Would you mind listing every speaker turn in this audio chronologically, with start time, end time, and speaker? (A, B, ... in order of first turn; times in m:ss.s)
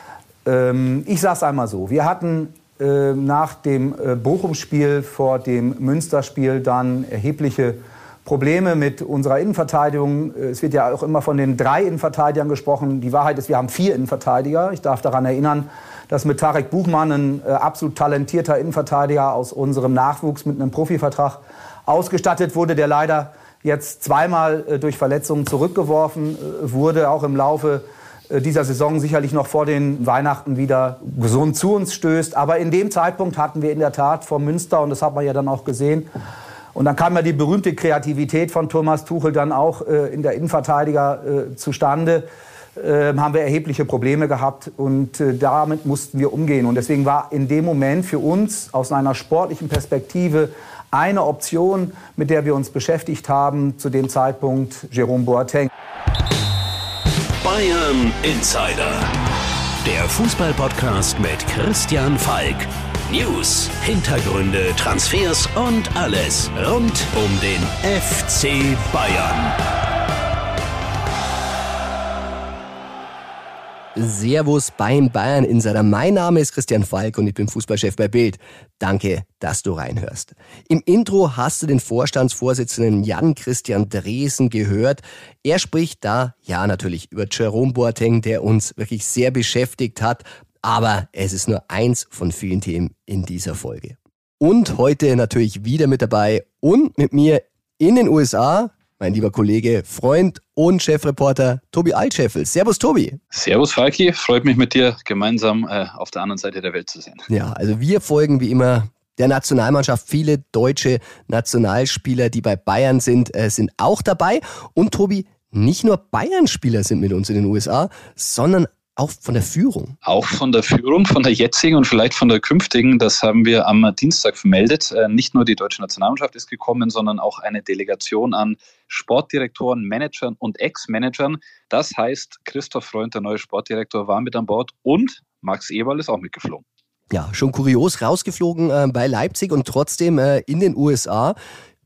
0:00.4-0:36.1 A
0:36.7-0:55.7 A
0:57.4-0:59.1 B
0:59.8-1:09.5 B
1:13.9-1:43.2 C
1:43.3-1:47.2 D
1:47.3-1:59.9 C
2:00.0-2:16.6 D
2:17.1-2:21.4 C